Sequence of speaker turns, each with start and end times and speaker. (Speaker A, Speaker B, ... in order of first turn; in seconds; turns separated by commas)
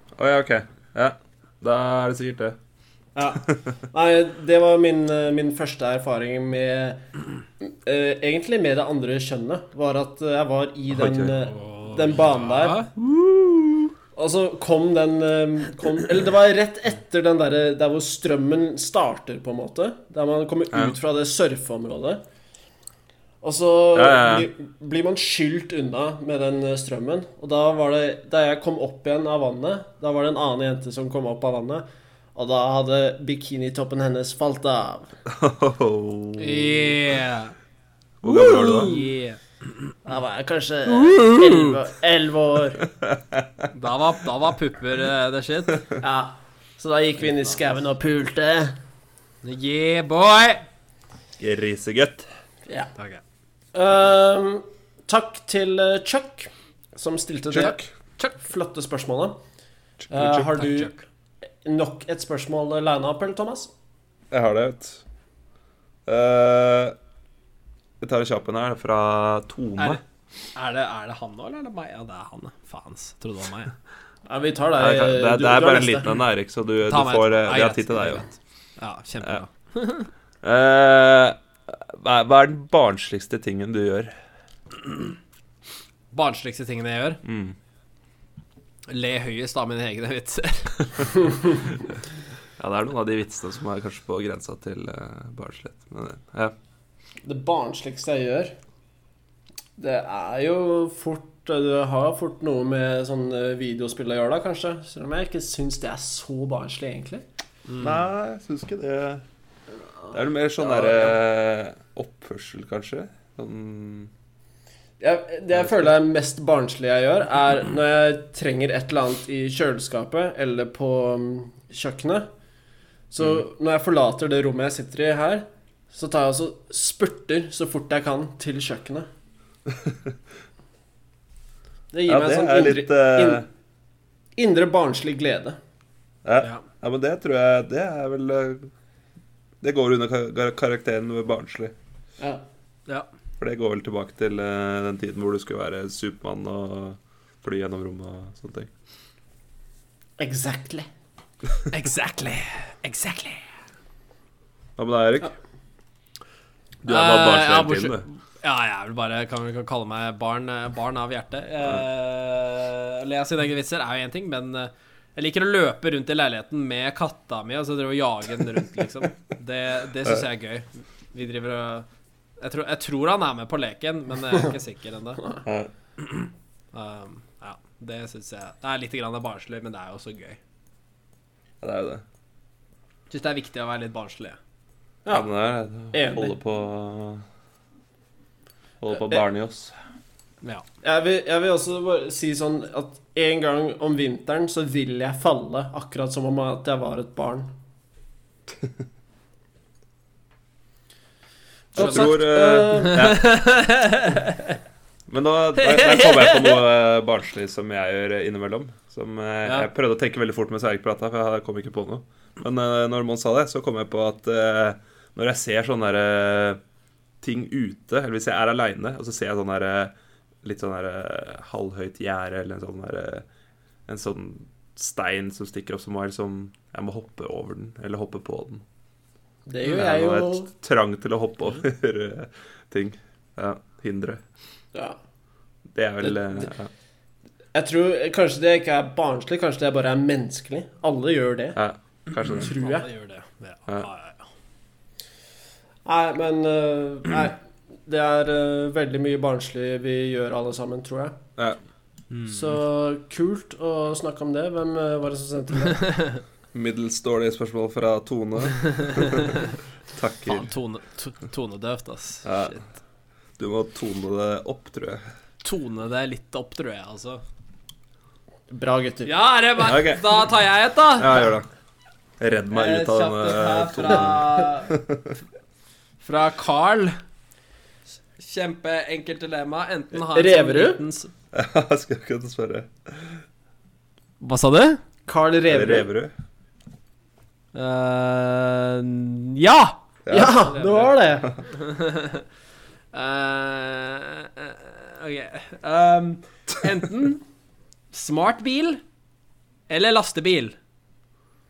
Speaker A: 0.2-2.6, Speaker B: 3.1-7.0, Speaker B: 7.6-12.8, Speaker A: 10.9-11.4, Speaker C: 11.6-12.9, Speaker A: 13.1-13.6, Speaker B: 14.1-22.2, Speaker B: 23.4-35.1, Speaker A: 23.9-24.5, Speaker A: 35.3-37.0, Speaker C: 36.4-37.5, Speaker A: 38.2-38.9, Speaker B: 38.3-39.1, Speaker C: 38.4-39.4, Speaker B: 40.0-42.9, Speaker C: 40.9-41.8, Speaker A: 43.0-43.7, Speaker C: 43.7-45.8, Speaker B: 46.0-48.8, Speaker C: 49.4-50.6, Speaker A: 51.4-52.3, Speaker B: 53.7-57.8, Speaker A: 57.5-57.9, Speaker C: 57.6-58.4, Speaker B: 58.4-59.4, Speaker A: 60.0-60.5, Speaker B: 60.1-60.9, Speaker C: 60.5-61.0, Speaker B: 61.6-63.7, Speaker A: 64.3-65.0, Speaker A: 66.0-67.0, Speaker A: 68.0-70.0, Speaker C: 70.5-73.7, Speaker B: 74.3-76.2, Speaker A: 74.8-78.2, Speaker C: 76.9-80.1, Speaker A: 80.4-84.1, Speaker C: 86.1-87.2, Speaker A: 87.2-87.5, Speaker C: 88.9-91.1, Speaker A: 92.6-96.5, Speaker B: 97.2-98.6, Speaker B: 99.8-107.2, Speaker C: 107.7-108.0, Speaker A: 107.8-109.2, Speaker A: 110.1-114.1, Speaker B: 110.6-111.1, Speaker B: 115.0-122.2, Speaker A: 115.5-115.9, Speaker B: 123.1-129.1, Speaker A: 129.7-130.1, Speaker B: 131.9-133.4, Speaker A: 132.1-133.4, Speaker B: 134.4-135.6, Speaker A: 136.2-138.7, Speaker A: 139.6-141.7, Speaker A: 143.4-148.7, Speaker B: 150.2-150.9, Speaker C: 151.7-153.4, Speaker A: 154.8-155.3, Speaker A: 156.8-158.0, Speaker C: 156.9-171.9, Speaker C: 172.4-175.2, Speaker A: 175.4-175.7, Speaker C: 176.7-180.4, Speaker A: 181.6-182.0, Speaker C: 183.1-184.4, Speaker A: 185.1-187.2, Speaker B: 185.9-186.3, Speaker A: 188.8-189.7, Speaker B: 188.9-189.2, Speaker B: 190.8-197.5, Speaker B: 201.7-203.2, Speaker A: 201.7-203.3, Speaker C: 201.8-202.2, Speaker C: 202.7-204.6, Speaker A: 205.1-216.6, Speaker C: 205.6-206.6, Speaker A: 217.2-223.3, Speaker A: 223.9-228.6, Speaker B: 229.5-230.5, Speaker A: 229.6-234.2, Speaker A: 235.7-236.7, Speaker B: 236.0-236.5, Speaker B: 237.5-241.6, Speaker A: 241.5-242.5, Speaker C: 242.2-244.3, Speaker B: 242.3-242.9, Speaker B: 245.8-251.2, Speaker C: 252.1-252.6, Speaker B: 252.3-256.0, Speaker C: 255.8-256.2, Speaker A: 256.5-259.4, Speaker C: 258.7-259.5, Speaker A: 259.9-260.5, Speaker C: 260.2-262.6, Speaker A: 262.2-262.6, Speaker A: 263.4-265.0, Speaker C: 265.4-267.2, Speaker B: 268.5-269.1, Speaker C: 269.0-271.2, Speaker A: 269.6-270.2, Speaker A: 270.9-271.5, Speaker A: 272.2-275.1, Speaker C: 272.5-274.7, Speaker C: 276.0-277.0, Speaker C: 278.2-281.1, Speaker B: 280.0-280.8, Speaker A: 281.3-283.2, Speaker C: 284.2-284.8, Speaker B: 285.1-285.9, Speaker A: 285.5-286.1, Speaker C: 287.5-292.2, Speaker A: 290.0-290.4, Speaker B: 290.1-291.3, Speaker C: 292.9-297.2, Speaker C: 297.9-298.8, Speaker C: 299.7-300.6